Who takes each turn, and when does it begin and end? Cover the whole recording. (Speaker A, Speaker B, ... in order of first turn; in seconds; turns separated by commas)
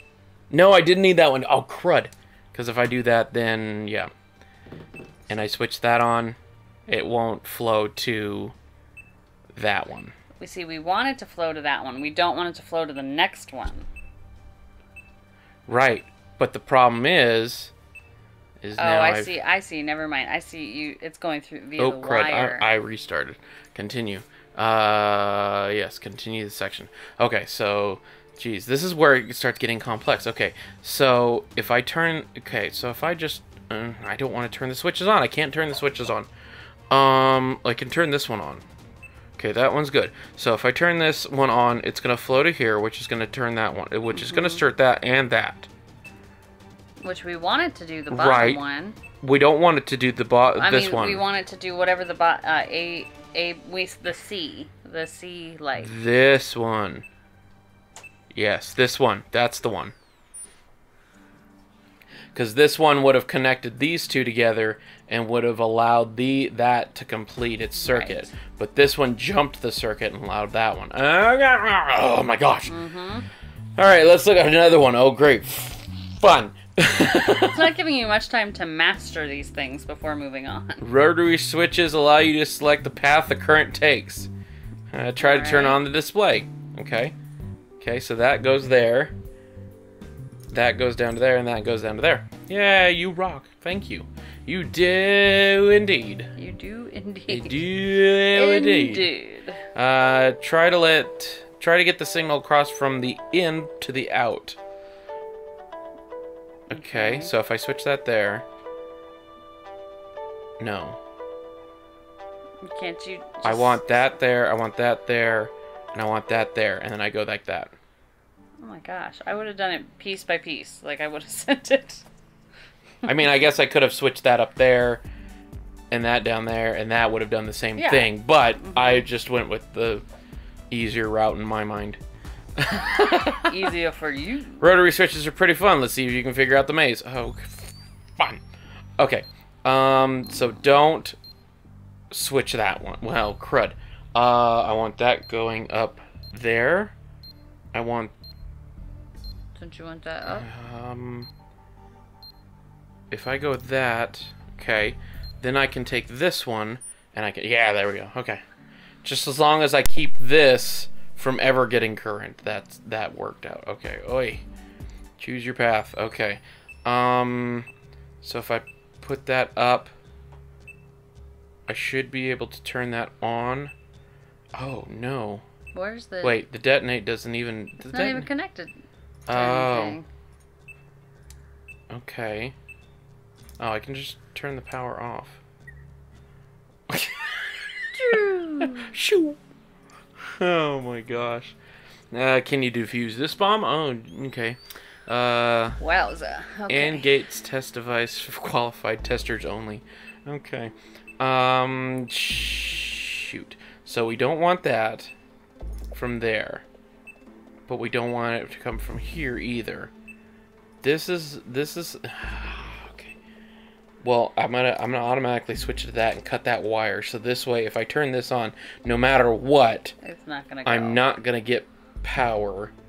Speaker A: 0.5-4.1, Speaker A: 5.3-6.4, Speaker A: 6.9-8.5, Speaker A: 9.6-10.1, Speaker B: 10.4-13.8, Speaker A: 15.7-17.7, Speaker A: 18.6-19.4, Speaker B: 18.8-22.7, Speaker A: 21.8-36.3, Speaker A: 36.9-38.6, Speaker A: 39.4-45.7, Speaker B: 44.1-44.6, Speaker B: 47.0-49.0, Speaker A: 48.1-48.6, Speaker A: 49.2-51.2, Speaker B: 50.6-55.9, Speaker A: 55.8-57.0, Speaker A: 58.3-59.9, Speaker A: 62.3-72.8, Speaker B: 67.7-68.3, Speaker B: 72.7-73.3, Speaker A: 73.8-77.7, Speaker B: 77.5-80.8, Speaker A: 80.8-84.3, Speaker A: 84.9-87.1, Speaker B: 85.2-85.8, Speaker A: 87.8-89.1, Speaker A: 90.5-96.3, Speaker B: 96.3-97.7, Speaker A: 97.3-99.1, Speaker B: 98.3-99.6, Speaker A: 99.7-104.6, Speaker A: 106.7-108.4, Speaker B: 106.7-107.3, Speaker A: 110.6-111.0, Speaker B: 112.7-113.8, Speaker A: 113.4-117.7, Speaker B: 118.6-122.0, Speaker A: 123.0-125.0, Speaker A: 125.9-130.0, Speaker B: 127.8-129.1, Speaker A: 130.7-132.0, Speaker A: 132.6-133.5, Speaker B: 133.4-134.6, Speaker A: 134.6-138.4, Speaker A: 139.0-141.2, Speaker A: 142.1-146.9, Speaker A: 147.7-148.1, Speaker B: 149.6-150.4, Speaker A: 150.2-151.3, Speaker A: 153.1-158.4, Speaker A: 159.0-164.4, Speaker A: 165.2-167.7, Speaker A: 168.2-169.9, Speaker A: 171.7-173.7, Speaker A: 174.6-175.4, Speaker B: 175.7-176.4, Speaker A: 176.2-178.3, Speaker B: 177.8-178.7, Speaker A: 179.3-180.0, Speaker B: 179.3-180.1, Speaker A: 181.9-182.5, Speaker A: 183.6-185.4, Speaker A: 186.9-189.4, Speaker B: 187.9-188.9, Speaker A: 190.4-191.6, Speaker A: 192.1-195.8, Speaker B: 195.8-197.1, Speaker A: 196.7-205.1, Speaker A: 205.9-206.6, Speaker A: 207.7-209.9, Speaker A: 210.8-213.2, Speaker A: 214.0-219.9, Speaker B: 220.0-221.0, Speaker A: 220.6-222.7